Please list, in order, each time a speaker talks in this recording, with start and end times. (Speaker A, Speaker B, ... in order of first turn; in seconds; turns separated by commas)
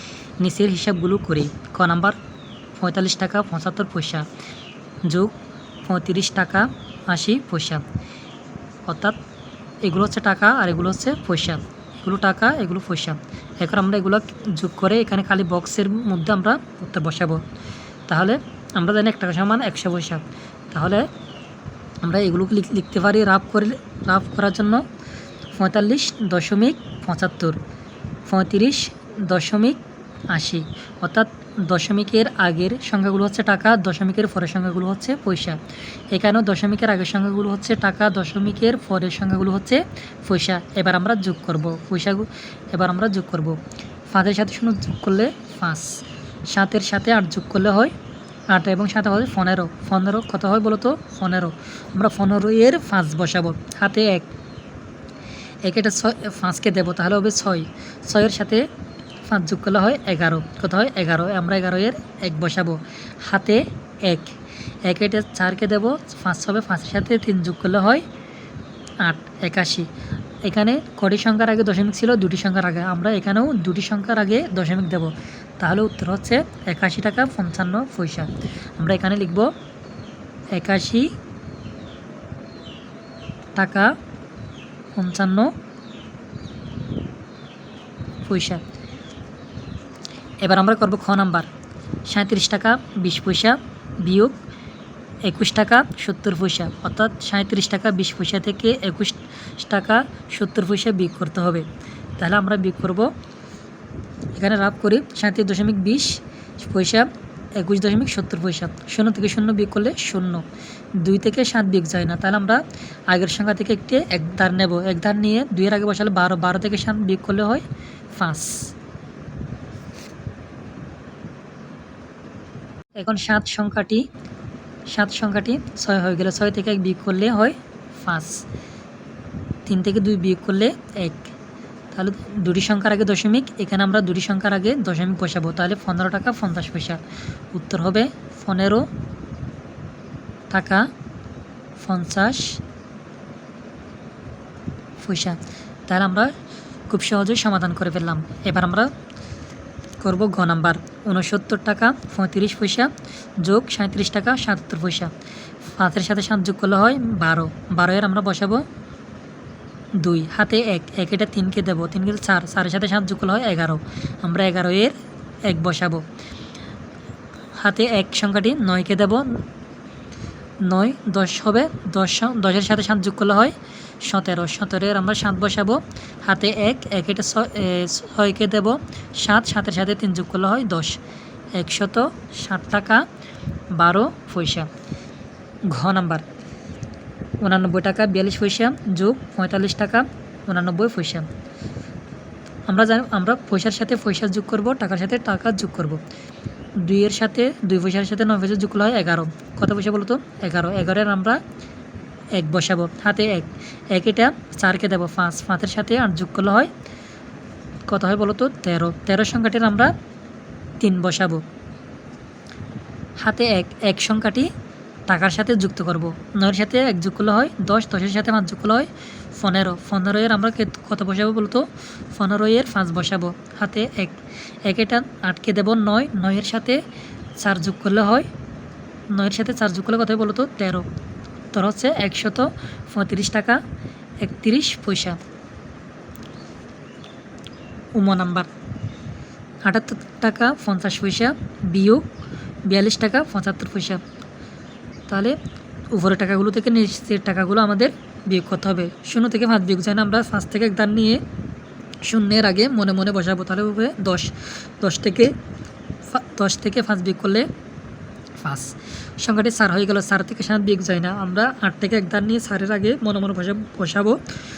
Speaker A: 0.4-2.2, Speaker A: 2.8-4.3, Speaker A: 5.1-7.8, Speaker A: 8.9-9.2, Speaker A: 9.8-17.4, Speaker A: 18.1-21.1, Speaker A: 22.0-24.8, Speaker A: 25.5-27.6, Speaker A: 28.3-35.6, Speaker A: 36.1-43.6, Speaker A: 44.1-45.9, Speaker A: 46.5-47.9, Speaker A: 48.5-54.3, Speaker A: 55.6-58.7, Speaker A: 59.2-68.0, Speaker A: 69.0-69.9, Speaker A: 70.4-79.5, Speaker A: 80.5-81.1, Speaker A: 83.5-83.9, Speaker A: 85.0-85.5, Speaker A: 88.2-88.6, Speaker A: 90.4-91.5, Speaker A: 92.1-94.4, Speaker A: 95.2-101.7, Speaker A: 102.2-103.1, Speaker A: 104.3-110.5, Speaker A: 111.0-118.7, Speaker A: 123.0-124.1, Speaker A: 124.9-128.4, Speaker A: 129.7-131.3, Speaker A: 131.9-137.0, Speaker A: 137.5-138.9, Speaker A: 140.5-140.9, Speaker A: 141.8-142.6, Speaker A: 145.0-146.3, Speaker A: 146.9-148.9, Speaker A: 150.0-155.1, Speaker A: 155.8-158.6, Speaker A: 160.0-164.9, Speaker A: 165.5-166.0, Speaker A: 167.6-169.4, Speaker A: 170.7-181.0, Speaker A: 181.6-183.0, Speaker A: 183.7-184.7, Speaker A: 185.7-186.2, Speaker A: 187.4-191.3, Speaker A: 192.7-196.0, Speaker A: 196.8-201.4, Speaker A: 202.4-206.7, Speaker A: 207.9-209.9, Speaker A: 210.8-211.4, Speaker A: 213.2-214.5, Speaker A: 215.1-226.8, Speaker A: 227.4-228.3, Speaker A: 229.1-230.9, Speaker A: 231.5-233.6, Speaker A: 234.2-235.2, Speaker A: 238.0-238.5, Speaker A: 239.7-242.1, Speaker A: 242.7-244.0, Speaker A: 245.1-245.4, Speaker A: 245.9-251.2, Speaker A: 252.1-255.3, Speaker A: 256.1-257.5, Speaker A: 258.4-264.2